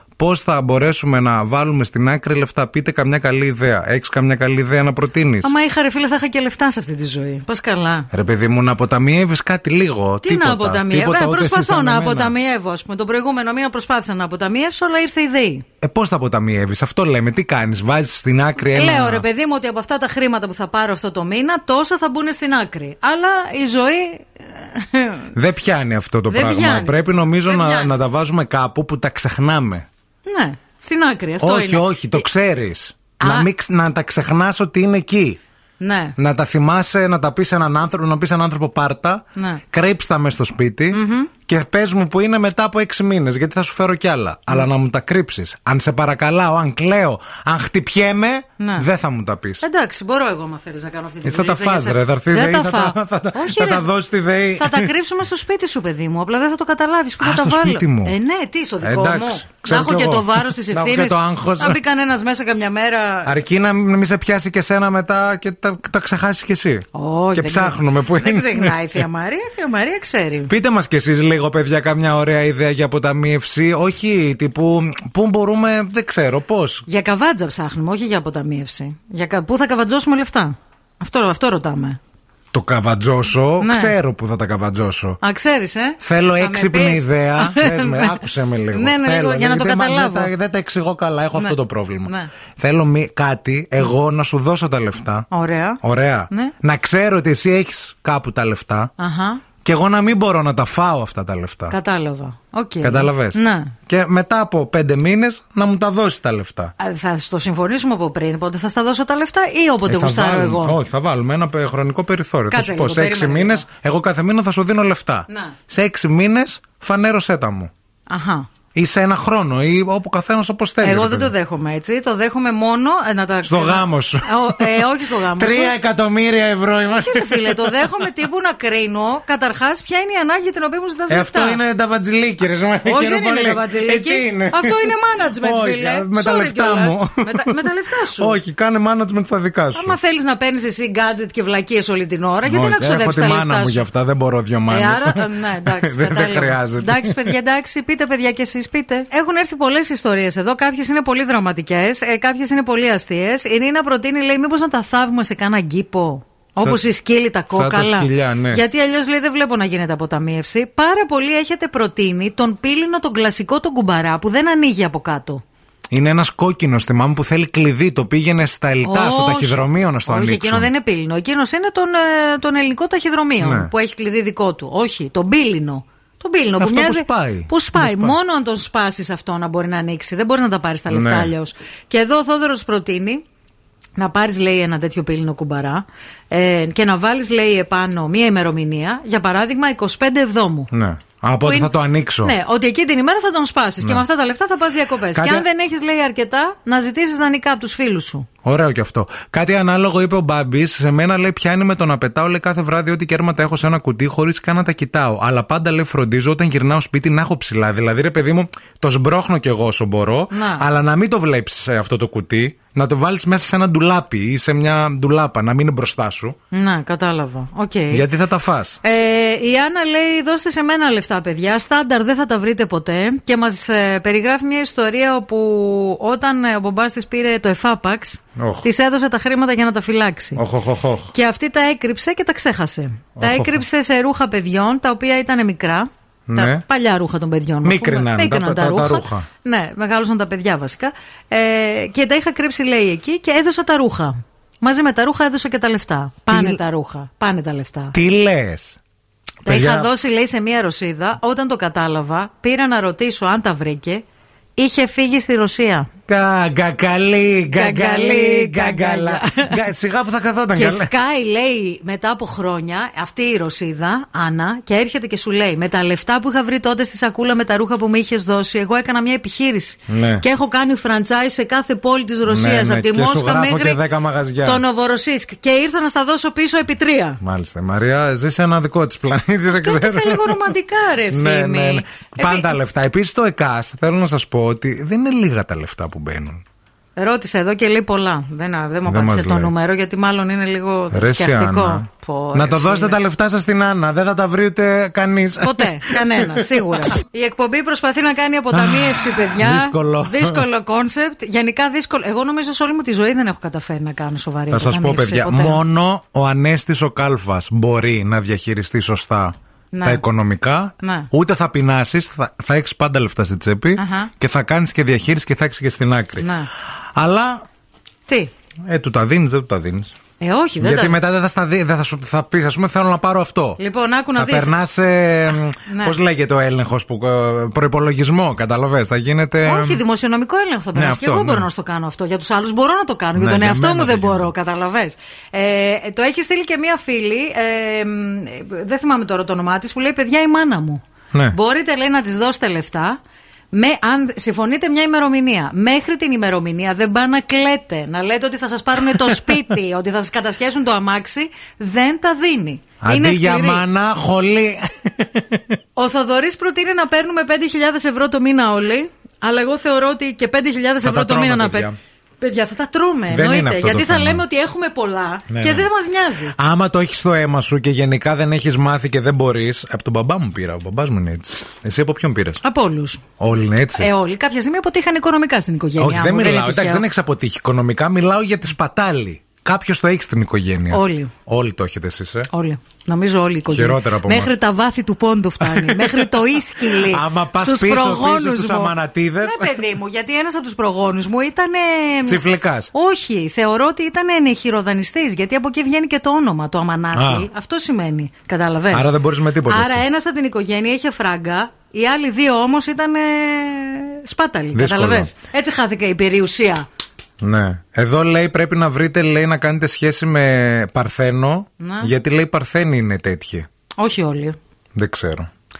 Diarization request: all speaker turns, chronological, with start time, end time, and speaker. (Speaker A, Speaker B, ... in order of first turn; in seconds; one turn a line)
Speaker A: 0.2-5.5
Speaker B: 5.4-8.1
Speaker A: 8.1-12.3
Speaker B: 10.2-15.7
Speaker A: 15.8-19.2
Speaker B: 18.6-25.3
Speaker A: 25.3-29.9
Speaker B: 26.3-27.9
Speaker B: 30.2-32.2
Speaker A: 31.4-35.4
Speaker B: 33.2-33.5
Speaker B: 35.8-36.2
Speaker A: 36.2-49.6
Speaker B: 39.4-39.6
Speaker B: 40.9-41.3
Speaker B: 48.6-48.9
Speaker B: 49.6-53.9
Speaker A: 51.2-54.9
Speaker B: 54.6-63.4
Speaker A: 57.2-58.1
Speaker A: 58.8-61.8
Speaker A: 63.2-68.8
Speaker B: 66.9-70.5
Speaker A: 70.5-76.9
Speaker B: 76.9-82.0
Speaker A: 82.5-85.2
Speaker B: 83.6-84.0
Speaker B: 85.2-90.3
Speaker A: 86.0-95.3
Speaker B: 91.3-92.3
Speaker B: 95.3-95.8
Speaker A: 95.8-98.9
Speaker B: 99.0-99.4
Speaker A: 99.6-101.8
Speaker B: 101.7-103.7
Speaker A: 102.8-106.7
Speaker B: 106.8-110.8
Speaker A: 109.9-117.7
Speaker B: 112.5-113.7
Speaker B: 115.3-115.5
Speaker B: 118.1-118.5
Speaker A: 118.7-121.3
Speaker B: 120.8-125.8
Speaker A: 123.5-128.1
Speaker B: 126.9-131.6
Speaker A: 131.1-137.6
Speaker B: 132.8-138.4
Speaker A: 138.2-140.0
Speaker B: 139.7-143.8
Speaker A: 142.4-147.3
Speaker B: 144.7-165.4
Speaker A: 157.5-158.6
Speaker A: 165.9-170.7
Speaker B: 168.8-183.2
Speaker A: 173.4-173.7
Speaker A: 176.6-178.2
Speaker A: 180.9-181.3
Speaker B: 184.0-190.7
Speaker A: 190.7-192.3
Speaker B: 191.4-198.3
Speaker A: 195.1-195.4
Speaker A: 198.4-216.4
Speaker B: 210.3-210.6
Speaker B: 216.5-218.1
Speaker A: 217.9-218.8
Speaker B: 218.8-230.4
Speaker A: 228.4-228.7
Speaker A: 230.4-231.1
Speaker B: 231.1-248.0
Speaker A: 233.2-233.6
Speaker A: 236.3-236.6
Speaker A: 237.6-239.3
Speaker A: 246.3-246.6
Speaker A: 247.9-248.8
Speaker A: 249.4-249.9
Speaker B: 249.4-254.0
Speaker B: 254.6-255.9
Speaker A: 256.1-260.9
Speaker B: 257.5-259.6
Speaker B: 260.6-273.8
Speaker A: 269.9-270.2
Speaker A: 272.3-274.6
Speaker B: 274.4-277.2
Speaker A: 277.2-280.4
Speaker B: 279.5-282.6
Speaker A: 281.1-286.4
Speaker B: 287.0-293.0
Speaker A: 288.9-289.5
Speaker A: 290.9-296.4
Speaker B: 295.4-305.6
Speaker A: 298.5-300.4
Speaker A: 304.5-316.3
Speaker B: 309.7-310.0
Speaker B: 310.8-311.1
Speaker B: 313.8-314.1
Speaker B: 316.2-316.5
Speaker A: 316.9-317.4
Speaker A: 318.7-319.9
Speaker B: 320.2-321.0
Speaker A: 320.6-323.6
Speaker B: 323.6-324.5
Speaker A: 324.2-329.8
Speaker B: 325.6-326.0
Speaker B: 329.4-343.0
Speaker A: 330.8-331.5
Speaker A: 333.2-334.3
Speaker B: 343.5-353.6
Speaker A: 352.8-355.5
Speaker B: 355.8-366.4
Speaker A: 360.8-361.8
Speaker A: 363.1-364.2
Speaker A: 365.3-365.7
Speaker A: 366.3-372.4
Speaker B: 372.4-373.0
Speaker A: 373.2-373.9
Speaker B: 373.8-376.9
Speaker A: 375.8-382.3
Speaker B: 380.7-381.1
Speaker B: 382.3-398.9
Speaker A: 383.5-384.3
Speaker A: 385.4-389.6
Speaker A: 392.1-392.7
Speaker A: 396.9-397.3
Speaker A: 398.7-399.8
Speaker B: 399.4-406.7
Speaker A: 404.5-405.1
Speaker A: 407.2-413.5
Speaker B: 411.6-411.9
Speaker B: 413.8-414.4
Speaker A: 414.8-415.3